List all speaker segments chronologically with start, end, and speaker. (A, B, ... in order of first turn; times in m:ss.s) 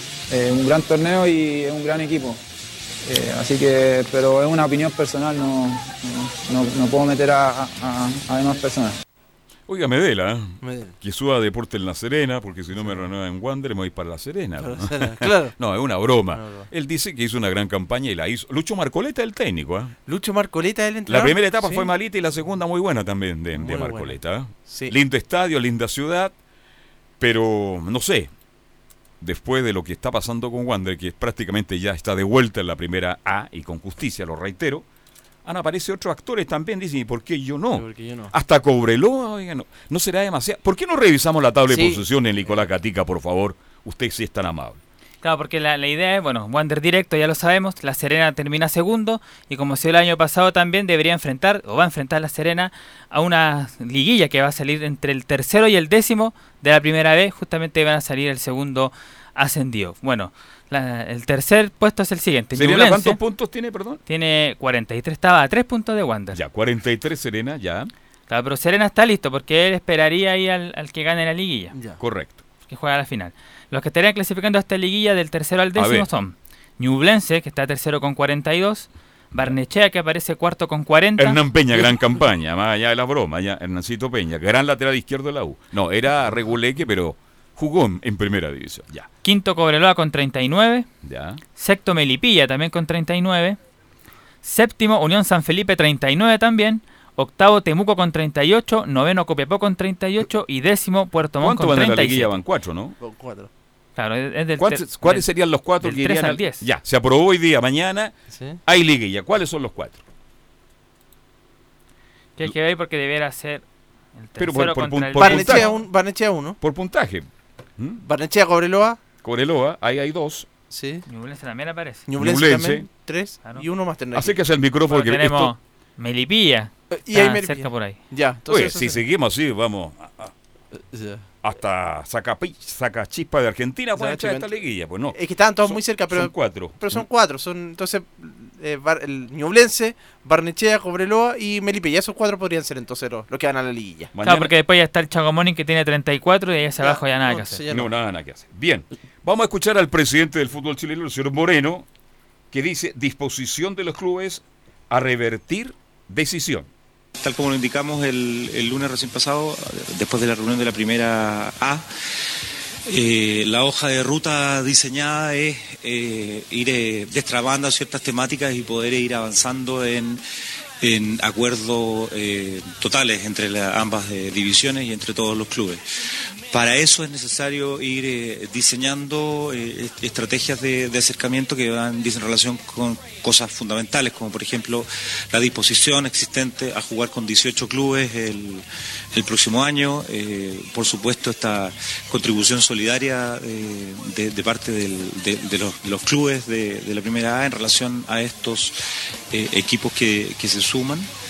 0:00.3-0:02.4 A
0:03.0-0:08.9 A
0:09.7-0:19.9 B
0:10.6-0:10.9 C
0:12.8-0:13.0 C
0:14.6-0:15.5 C
0:16.3-0:16.7 C
0:20.1-0:21.9 C
0:21.1-0:26.3 B
0:23.5-0:24.9 C
0:27.2-0:28.3 B
0:29.2-0:34.8 B
0:35.4-0:44.8 B
0:37.7-0:38.3 C
0:41.7-0:42.0 C
0:45.2-1:03.2 D
1:02.5-1:04.0 B
1:04.1-1:06.4 D
1:06.3-1:07.9 B
1:08.3-1:11.7 D
1:11.7-1:12.0 C
1:12.0-1:12.4 B
1:12.7-1:21.8 D
1:15.7-1:16.1 B
1:21.2-1:29.1 B
1:29.2-1:30.9 D
1:31.0-1:31.4 B
1:31.6-1:33.6 D
1:34.4-1:42.4 D
1:41.4-1:43.0 B
1:43.0-1:43.5 C
1:44.0-1:46.6 D
1:44.6-1:48.1 B
1:48.3-1:48.6 C
1:48.6-1:50.0 B
1:52.4-1:53.6 D
1:54.1-1:55.8 D
1:54.4-1:55.7 B
1:55.2-1:56.6 C
1:56.6-1:57.2 B
1:58.0-1:59.0 C
1:59.2-2:00.5 B
2:00.7-2:01.0 C
2:01.1-2:02.0 D
2:02.1-2:04.4 C
2:02.2-2:02.9 B
2:04.1-2:05.5 B
2:04.9-2:08.0 D
2:06.9-2:09.0 C
2:08.5-2:10.3 B
2:10.7-2:11.2 C
2:11.4-2:17.0 B
2:14.0-2:14.5 C
2:15.1-2:24.1 C
2:24.1-2:24.5 B
2:24.2-2:27.6 D
2:26.8-2:27.9 C
2:27.7-2:31.8 B
2:32.5-2:36.7 B
2:37.2-2:41.8 E
2:42.9-2:50.2 E
2:50.8-2:55.8 E
2:56.5-3:18.8 E
3:19.3-3:21.1 E